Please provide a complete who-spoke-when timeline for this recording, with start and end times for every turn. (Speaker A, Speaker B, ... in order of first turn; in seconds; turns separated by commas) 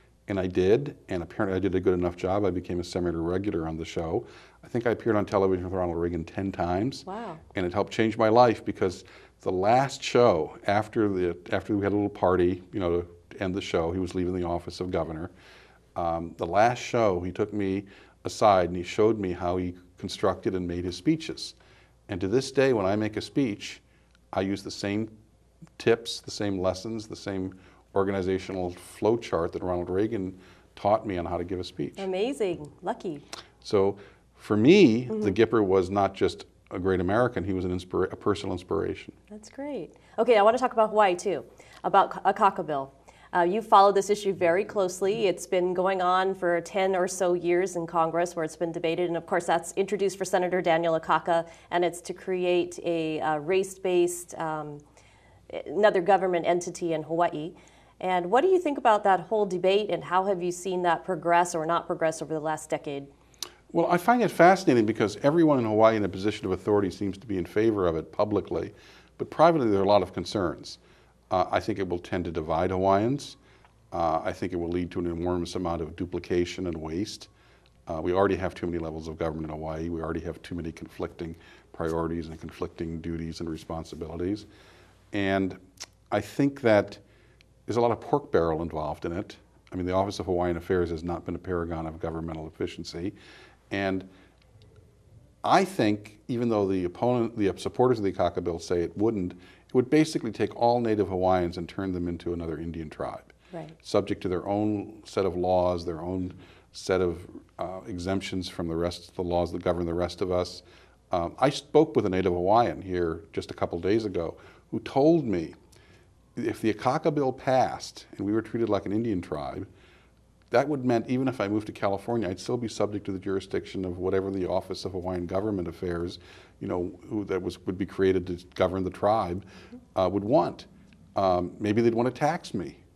Speaker A: 0.3-15.3, Speaker B: 7.1-7.4, Speaker A: 15.9-21.6, Speaker A: 22.1-25.1, Speaker A: 25.8-32.1, Speaker B: 32.0-33.2, Speaker A: 33.6-39.2, Speaker B: 39.3-54.8, Speaker B: 55.5-63.1, Speaker A: 63.7-73.4, Speaker A: 73.9-77.3, Speaker A: 77.9-84.5, Speaker A: 85.1-85.6, Speaker A: 86.1-87.0, Speaker A: 87.7-93.1, Speaker A: 93.7-94.1, Speaker A: 95.4-115.5, Speaker A: 116.4-119.7, Speaker A: 120.5-129.4, Speaker A: 129.9-132.8